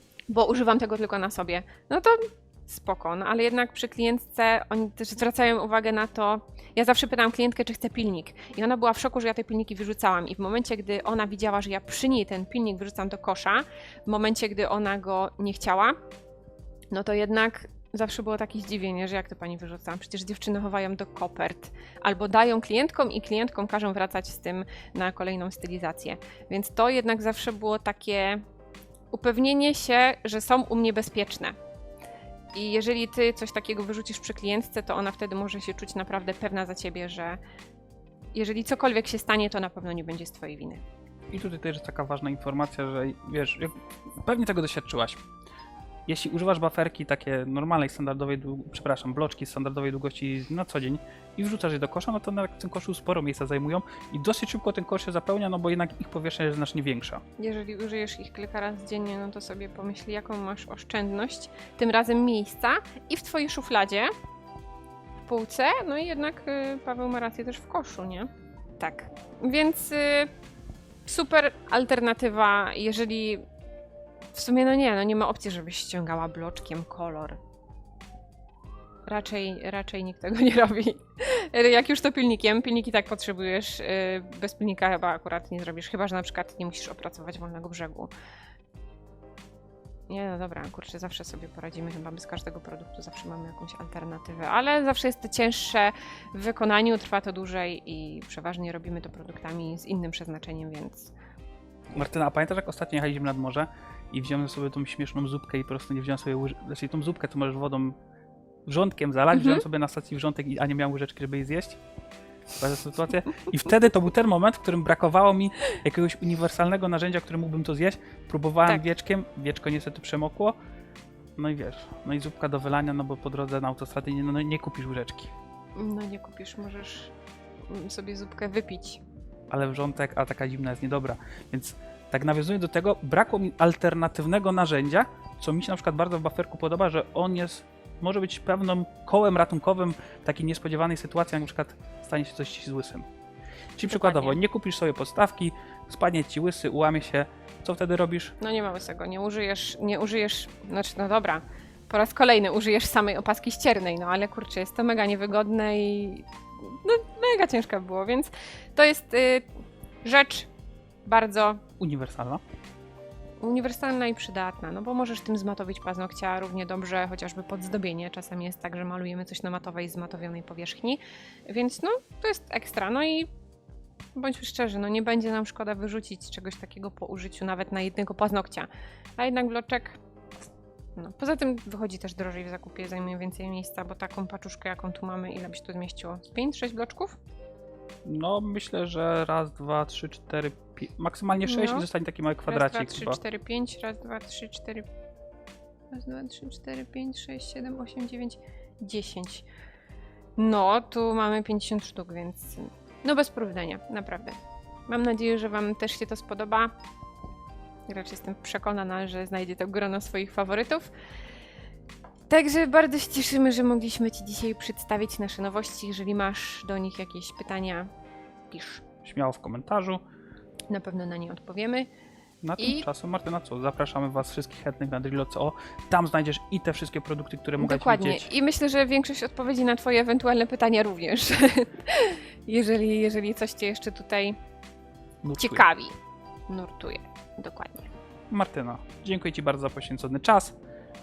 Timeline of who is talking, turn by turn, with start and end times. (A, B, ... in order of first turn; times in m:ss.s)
0:00.3-0:16.0 A
0:16.9-0:28.4 A
0:29.1-0:31.5 A
0:32.5-0:37.4 A
0:38.3-0:40.8 A
0:41.3-0:45.2 B
0:46.1-0:57.2 B
0:57.4-1:04.1 A
1:05.2-1:10.3 A
1:11.0-1:13.4 A
1:14.3-1:17.4 A
1:19.0-1:28.1 A
1:30.1-1:41.1 A
1:41.9-1:48.0 B
1:48.7-1:51.8 B
1:49.3-1:49.6 A
1:52.6-2:00.5 B
2:01.4-2:05.3 B
2:05.8-2:09.0 A
2:09.5-2:23.1 B
2:23.8-2:28.3 B
2:23.8-2:24.4 A
2:28.4-2:39.5 A
2:40.0-2:40.5 A
2:41.0-2:41.6 A
2:41.8-2:42.4 B
2:43.4-2:53.3 A
2:54.1-3:00.0 A
3:01.0-3:07.2 A
3:08.0-3:13.2 B
3:11.4-3:11.9 A
3:12.5-3:14.9 A
3:15.9-3:19.4 A
3:20.4-3:26.7 A
3:27.9-3:30.9 A
3:32.3-3:37.9 A
3:38.5-3:38.8 A
3:39.0-3:40.0 B
3:40.7-3:41.9 A
3:42.4-3:48.3 B
3:42.6-3:42.8 A
3:47.6-3:54.4 A
3:55.2-3:55.6 B
3:55.4-3:56.0 A
3:56.5-3:57.9 A
3:58.3-4:00.6 B